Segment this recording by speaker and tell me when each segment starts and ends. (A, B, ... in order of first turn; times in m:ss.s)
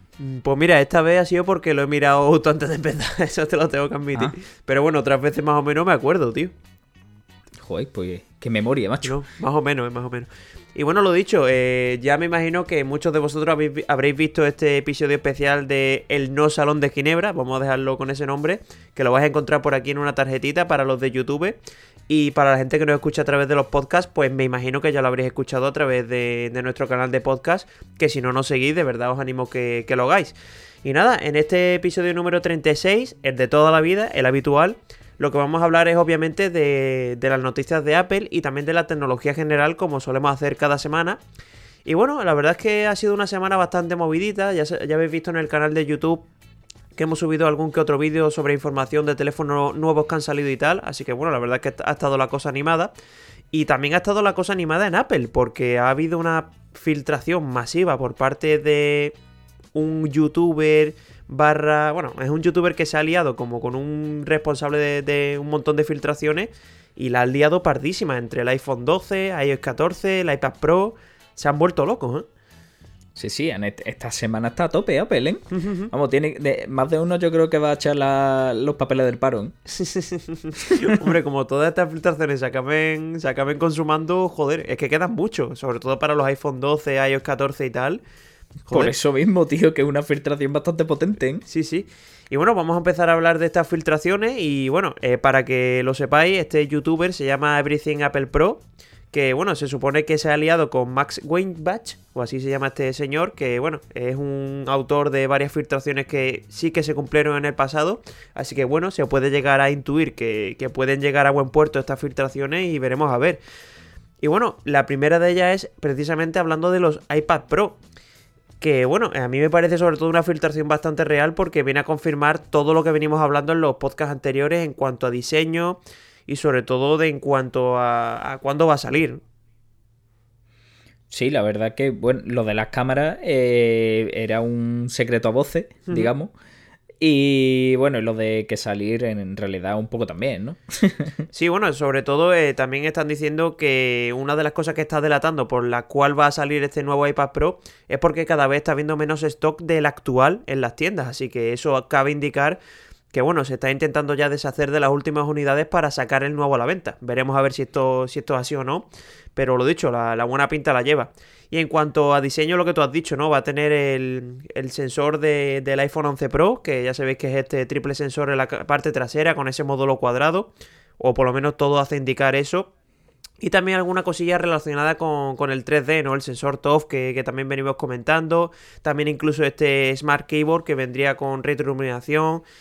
0:00.2-0:06.5 A
0:07.6-0:09.2 B
0:09.0-0:41.2 A
0:41.8-0:46.2 A
0:47.0-0:52.9 A
0:53.5-0:59.2 A
0:59.7-1:12.3 A
1:13.2-1:19.6 B
1:15.5-1:15.9 A
1:19.7-1:28.0 A
1:28.7-1:28.9 A
1:28.7-1:31.4 B
1:31.5-1:53.4 A
1:54.2-1:57.8 A
1:58.6-2:09.2 A
2:11.1-2:16.3 B
2:17.0-2:21.3 B
2:21.3-2:32.6 A
2:33.1-2:52.7 A
2:53.4-3:02.4 A